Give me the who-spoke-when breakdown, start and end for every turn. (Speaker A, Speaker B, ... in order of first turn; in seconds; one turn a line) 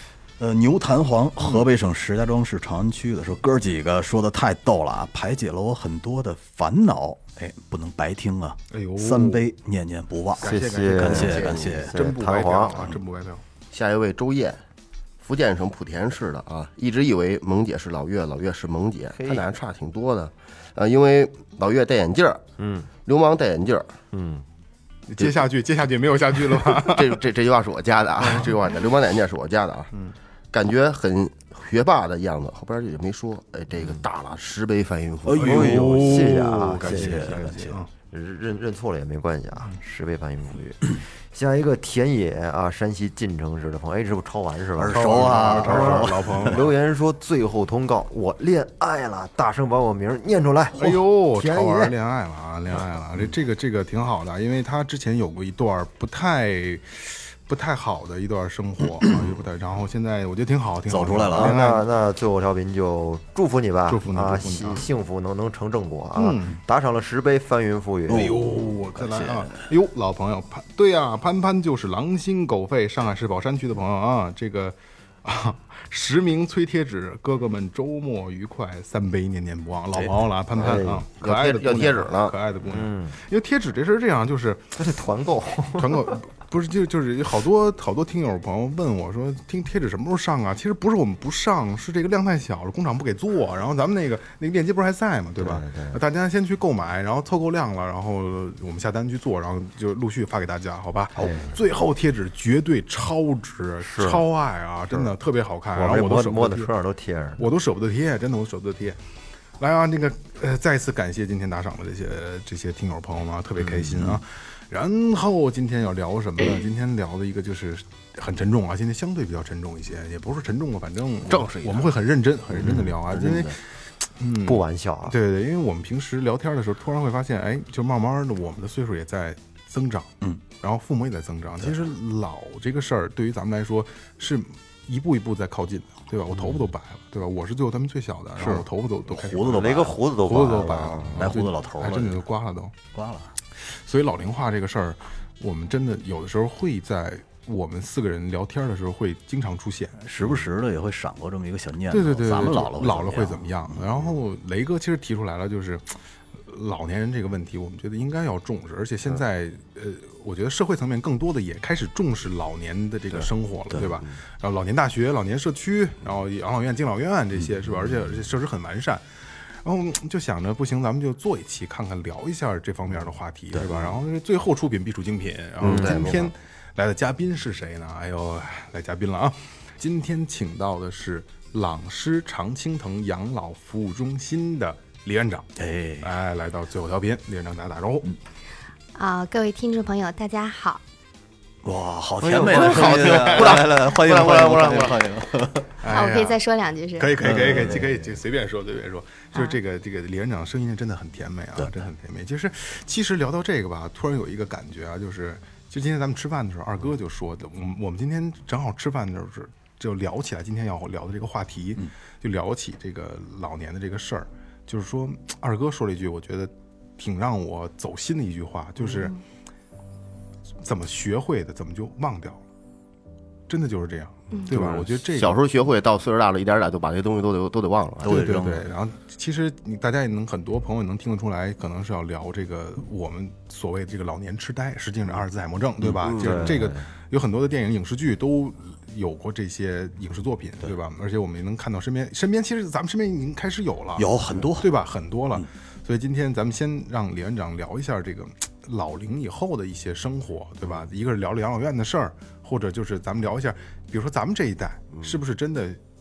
Speaker A: 0.4-12.0
Speaker B: 8.7-9.4
Speaker B: 10.4-13.4
Speaker C: 10.4-12.9
Speaker D: 11.1-11.9
Speaker D: 13.7-14.6
Speaker D: 15.2-22.4
Speaker C: 22.6-22.9
Speaker D: 23.1-24.0
Speaker C: 24.1-24.4
Speaker B: 25.1-27.2
Speaker D: 26.6-29.9
Speaker B: 28.2-28.5
Speaker D: 30.5-35.6
Speaker A: 35.3-37.8
Speaker B: 35.4-37.9
Speaker C: 35.4-51.9
Speaker A: 44.8-46.7
Speaker B: 44.9-46.7
Speaker B: 50.8-61.9
Speaker A: 60.9-61.6
Speaker C: 61.3-68.5
Speaker B: 63.9-64.8
Speaker B: 66.2-66.5
Speaker A: 68.1-69.6
Speaker B: 68.1-84.8
Speaker A: 79.9-80.2
Speaker C: 80.5-81.1
Speaker D: 81.2-82.4
Speaker C: 82.7-83.2
Speaker C: 84.8-86.2
Speaker B: 85.8-106.7
Speaker C: 95.4-96.0
Speaker C: 101.2-101.6
Speaker C: 103.8-104.3
Speaker C: 105.7-107.5
Speaker B: 107.4-109.0
Speaker B: 109.6-142.8
Speaker A: 113.6-114.2
Speaker D: 121.3-121.9
Speaker A: 122.6-122.9
Speaker D: 123.0-123.6
Speaker C: 124.4-125.2
Speaker A: 138.4-140.0
Speaker C: 139.4-141.3
Speaker A: 141.2-142.2
Speaker A: 142.9-143.3
Speaker B: 143.6-150.0
Speaker A: 150.0-153.8
Speaker B: 151.9-185.5
Speaker D: 163.1-164.1
Speaker D: 175.6-176.3
Speaker C: 175.6-175.9
Speaker A: 185.6-186.1
Speaker B: 186.0-188.1
Speaker E: 188.9-190.8
Speaker A: 191.6-195.8
Speaker C: 192.2-192.7
Speaker D: 192.3-195.0
Speaker B: 192.6-193.6
Speaker B: 195.8-196.4
Speaker E: 195.9-197.2
Speaker B: 197.0-219.2
Speaker A: 197.2-197.9
Speaker C: 197.8-198.1
Speaker E: 218.8-219.2
Speaker B: 220.6-222.4
Speaker B: 223.5-225.4
Speaker D: 224.5-228.2
Speaker A: 228.0-228.7
Speaker B: 228.1-255.8
Speaker D: 236.0-236.5
Speaker C: 236.2-236.9
Speaker A: 244.0-244.7